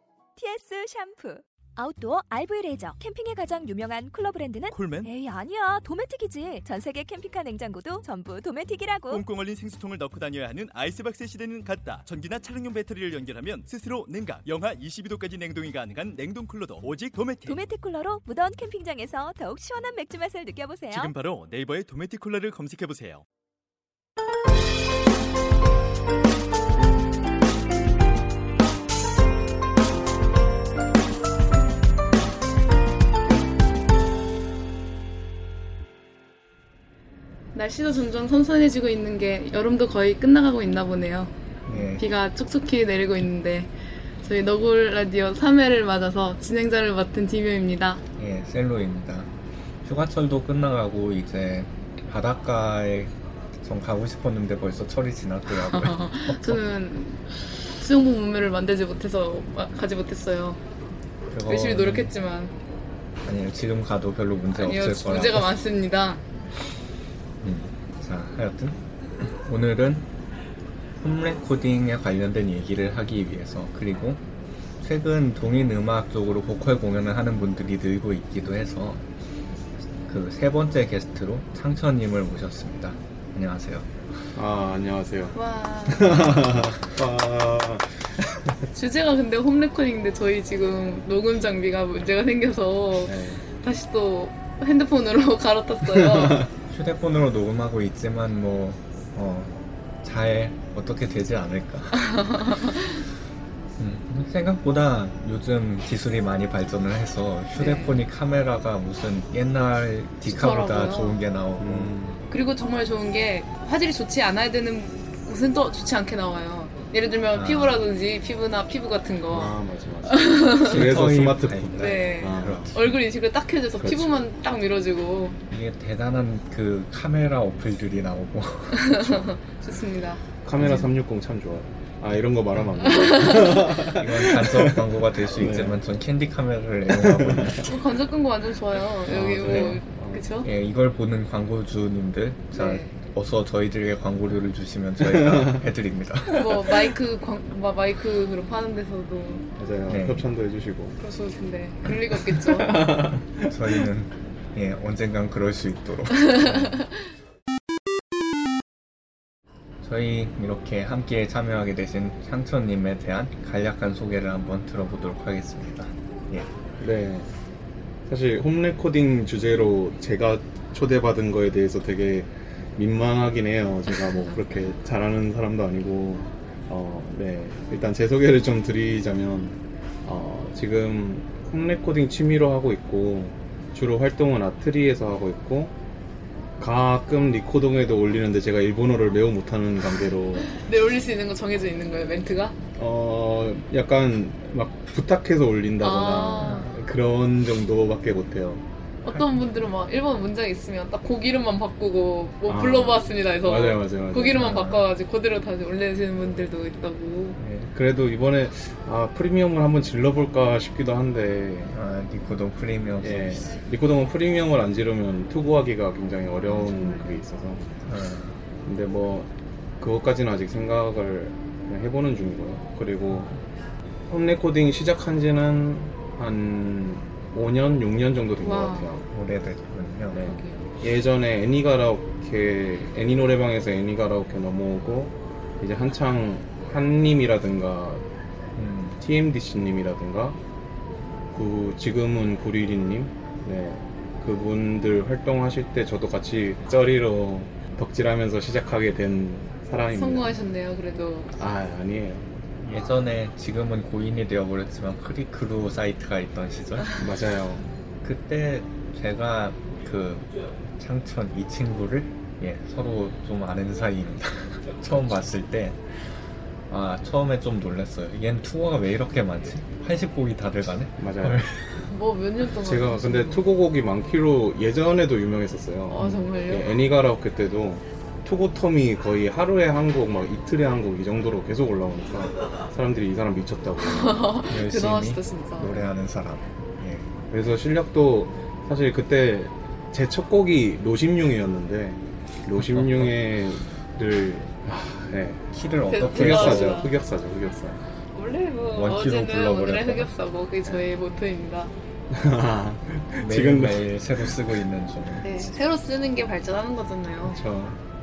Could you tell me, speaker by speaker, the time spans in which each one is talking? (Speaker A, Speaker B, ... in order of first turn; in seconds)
Speaker A: 0.3-9.2, 17.4-21.1
Speaker B: 4.7-5.1, 9.1-17.6, 20.9-23.2
Speaker C: 37.5-41.3, 41.9-43.7, 44.2-48.0, 55.5-60.6, 61.5-62.5, 64.5-66.2, 85.3-86.2, 88.7-96.5, 102.0-103.0, 107.5-107.9, 110.2-111.2, 112.3-119.5, 120.1-120.9, 121.8-125.4, 128.7-130.2, 132.8-133.6, 137.6-140.5, 142.5-142.9, 146.3-149.4, 151.0-152.9, 156.3-156.8, 190.5-192.6, 195.8-196.7, 199.0-207.4, 216.5-217.2, 228.4-228.9, 230.2-230.7, 249.9-251.3, 271.9-273.4, 275.9-276.7, 283.9-285.8, 295.9-296.9, 298.1-301.7, 305.2-307.4
Speaker D: 41.7-42.0, 48.2-49.3, 49.8-56.6, 61.3-62.1, 63.2-65.5, 67.4-70.1, 71.0-74.2, 74.8-79.0, 80.1-83.9, 86.2-86.7, 96.7-102.4, 103.8-111.9, 117.3-117.8, 120.6-123.0, 125.5-129.3, 130.6-130.9, 133.4-137.7, 139.3-139.8, 140.4-146.9, 149.9-150.3, 153.4-156.8, 159.8-166.5, 196.4-196.7, 204.3-204.8, 211.7-213.6, 216.5-216.7, 217.8-218.4, 229.1-230.3, 238.6-239.0, 252.6-256.9, 258.0-271.8, 276.0-276.2, 284.5-287.1, 292.6-293.1, 295.5-296.8, 298.7-300.1, 303.2-305.5
Speaker E: 84.3-85.3, 85.9-87.9, 93.0-93.4, 96.2-96.4, 111.6-112.2, 119.3-122.7, 123.8-124.1, 130.4-135.8, 136.9-137.7, 139.1-140.2, 145.0-145.6, 149.6-151.0, 152.5-153.5, 166.8-167.3, 168.1-185.7, 186.6-190.5, 192.8-198.6, 202.5-204.8, 207.4-211.7, 213.0-217.6, 218.6-223.3, 224.1-229.0, 230.1-238.0, 239.0-240.4, 241.3-250.3, 251.3-252.3, 257.0-257.6, 271.0-271.4, 272.6-284.4, 287.3-295.4, 296.1-297.8, 302.1-304.4, 307.2-307.8